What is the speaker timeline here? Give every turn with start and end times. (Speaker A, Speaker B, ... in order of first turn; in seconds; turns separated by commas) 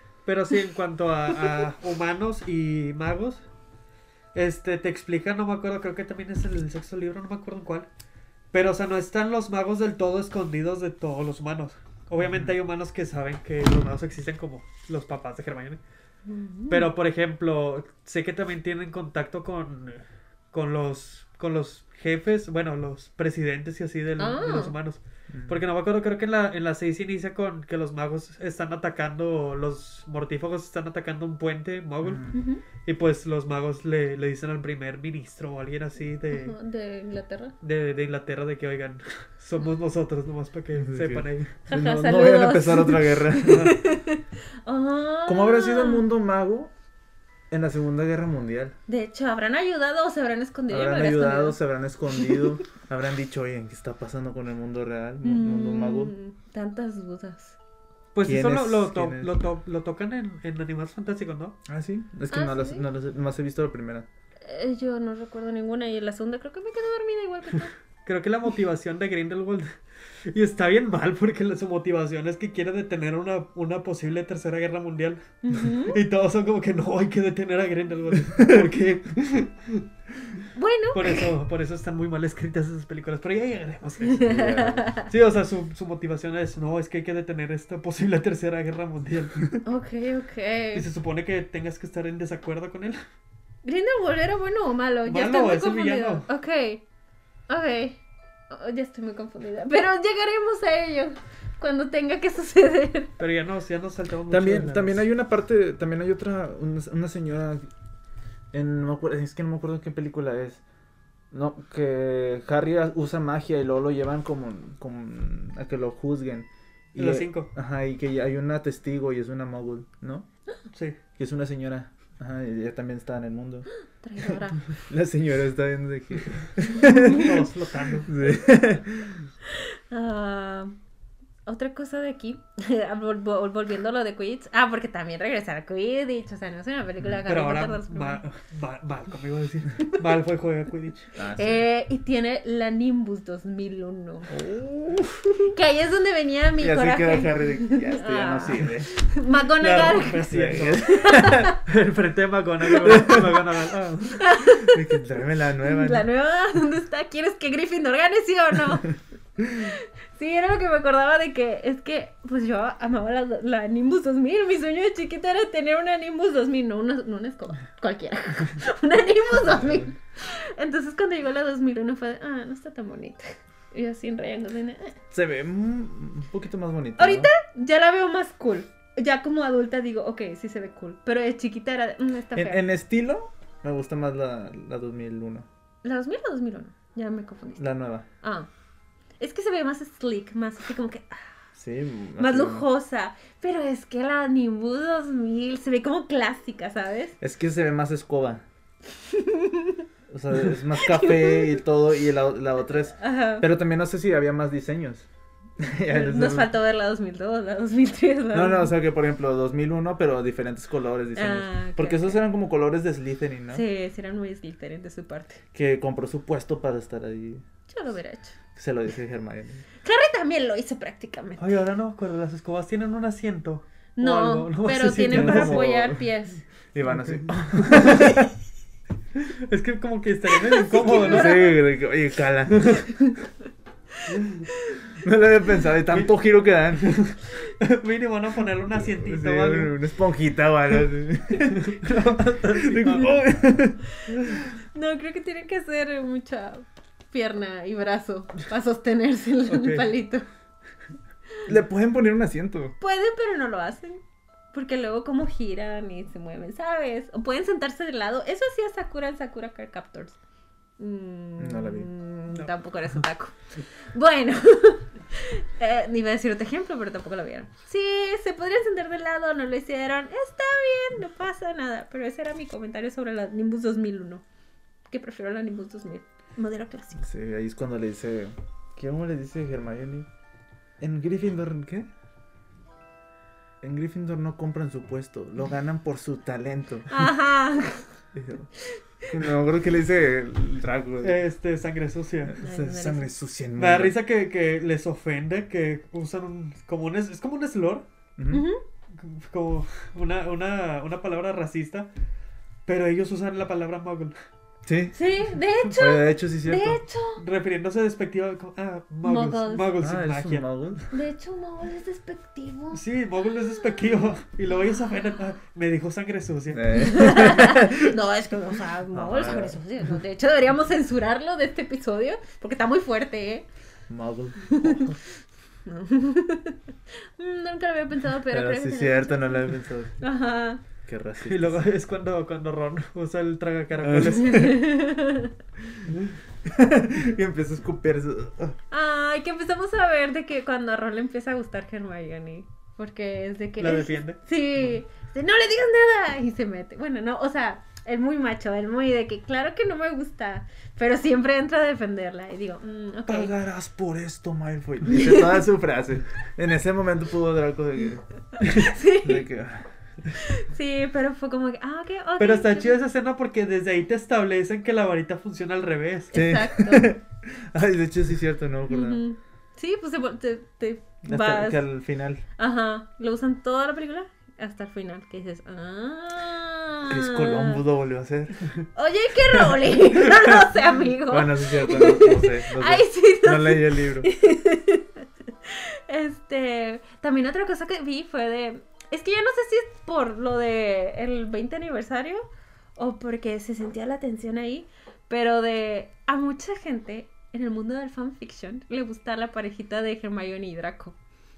Speaker A: 0.2-3.4, Speaker A: 4.3-7.9, Speaker A: 8.5-15.8, Speaker B: 12.2-12.5, Speaker C: 16.2-16.9, Speaker A: 16.7-32.3, Speaker C: 24.2-24.7, Speaker B: 25.3-25.6, Speaker B: 32.0-32.4, Speaker C: 32.3-32.6, Speaker A: 32.8-36.5, Speaker C: 36.3-37.5, Speaker A: 37.6-41.6, Speaker B: 40.7-43.7, Speaker C: 41.7-46.1, Speaker A: 43.5-43.8, Speaker B: 45.2-46.7, Speaker B: 47.5-48.7, Speaker C: 48.9-51.6, Speaker B: 50.7-56.1, Speaker C: 52.2-52.5, Speaker C: 55.2-57.6, Speaker A: 58.1-61.5, Speaker B: 58.2-59.3, Speaker B: 61.6-64.1, Speaker C: 62.3-62.9, Speaker C: 64.4-67.7, Speaker A: 68.0-69.8, Speaker A: 70.3-79.8, Speaker C: 75.4-76.0, Speaker C: 80.5-81.3, Speaker A: 80.9-84.2, Speaker C: 84.0-85.1, Speaker B: 84.0-84.9, Speaker A: 85.1-89.6, Speaker C: 89.6-90.8, Speaker A: 90.7-93.0, Speaker C: 93.6-96.8, Speaker A: 95.0-96.3, Speaker C: 97.5-103.2, Speaker A: 103.2-105.0, Speaker B: 104.3-107.6, Speaker B: 108.5-110.6, Speaker B: 111.3-120.3, Speaker A: 117.0-117.5, Speaker A: 120.7-121.0, Speaker B: 121.2-123.7, Speaker C: 124.0-124.7, Speaker B: 124.2-127.5, Speaker A: 126.9-128.1, Speaker B: 128.0-129.3, Speaker C: 129.5-130.7, Speaker C: 131.4-138.2, Speaker A: 137.2-141.1, Speaker B: 141.2-141.6, Speaker C: 141.3-144.4, Speaker B: 144.3-145.3, Speaker C: 145.4-150.3, Speaker B: 146.6-148.9, Speaker A: 149.6-154.2, Speaker B: 150.2-151.5, Speaker C: 150.8-151.6, Speaker B: 152.8-153.4, Speaker C: 154.2-155.0, Speaker B: 154.6-156.1, Speaker C: 155.6-159.0, Speaker C: 159.5-175.0, Speaker B: 169.4-169.9, Speaker B: 175.1-177.3, Speaker C: 177.0-182.6, Speaker B: 182.3-185.5, Speaker C: 185.8-187.7, Speaker B: 187.6-188.1, Speaker C: 188.2-188.5, Speaker C: 189.2-191.2, Speaker B: 191.5-192.7, Speaker C: 192.2-197.2, Speaker B: 197.2-198.4, Speaker C: 199.0-199.8, Speaker B: 200.1-205.1, Speaker C: 200.7-201.6, Speaker C: 202.9-203.4, Speaker B: 205.6-206.5, Speaker C: 205.9-208.7, Speaker B: 208.3-213.6, Speaker C: 211.2-212.2, Speaker C: 213.5-215.4, Speaker B: 215.5-217.4, Speaker C: 217.7-218.4, Speaker B: 218.5-219.6, Speaker C: 219.8-221.6, Speaker A: 221.4-225.7, Speaker C: 224.0-226.4, Speaker B: 224.9-226.1, Speaker B: 226.7-228.3, Speaker A: 226.9-228.2, Speaker A: 229.2-231.5, Speaker C: 230.4-231.6, Speaker B: 230.9-232.8, Speaker A: 232.5-232.8, Speaker C: 233.9-234.8, Speaker A: 234.1-234.5, Speaker B: 235.0-237.0, Speaker A: 236.7-239.8, Speaker B: 238.7-244.5, Speaker A: 241.4-243.2, Speaker C: 244.7-250.3, Speaker A: 249.5-249.9, Speaker B: 251.5-252.8, Speaker C: 252.8-254.0, Speaker C: 254.5-260.2, Speaker C: 260.8-274.2, Speaker B: 261.4-261.9, Speaker C: 274.9-277.1, Speaker B: 277.0-280.1, Speaker B: 280.8-281.9, Speaker B: 283.6-287.1, Speaker C: 286.9-287.9, Speaker B: 288.1-288.5, Speaker B: 289.1-291.2, Speaker A: 291.0-292.3, Speaker B: 292.3-293.9, Speaker C: 292.4-293.1, Speaker A: 293.6-297.9, Speaker B: 298.2-298.4, Speaker C: 298.3-298.6, Speaker A: 298.9-301.9, Speaker A: 302.6-304.1, Speaker B: 304.6-304.9, Speaker C: 304.9-307.2, Speaker B: 305.7-306.8, Speaker A: 307.2-310.4, Speaker C: 309.0-309.7, Speaker B: 309.8-310.9, Speaker C: 310.9-312.8, Speaker A: 312.7-316.8, Speaker C: 313.3-313.9, Speaker B: 316.5-317.9, Speaker C: 316.7-323.5, Speaker B: 318.9-319.8, Speaker B: 323.9-325.0, Speaker C: 324.4-325.0, Speaker C: 325.6-329.5, Speaker B: 328.3-330.1, Speaker C: 330.0-330.6, Speaker B: 330.9-331.6, Speaker A: 331.2-334.7, Speaker B: 333.8-334.3, Speaker C: 334.2-335.3, Speaker B: 336.4-338.6, Speaker C: 338.7-353.3, Speaker A: 343.6-344.2, Speaker B: 353.1-358.0, Speaker C: 354.9-355.4, Speaker C: 358.4-359.3, Speaker B: 359.0-359.7, Speaker C: 360.1-362.8, Speaker A: 362.2-366.1, Speaker C: 366.1-366.9, Speaker B: 366.1-369.0, Speaker C: 368.7-371.6, Speaker B: 371.0-372.2, Speaker C: 372.4-377.6, Speaker B: 376.9-378.5, Speaker C: 378.7-400.9, Speaker B: 381.1-384.1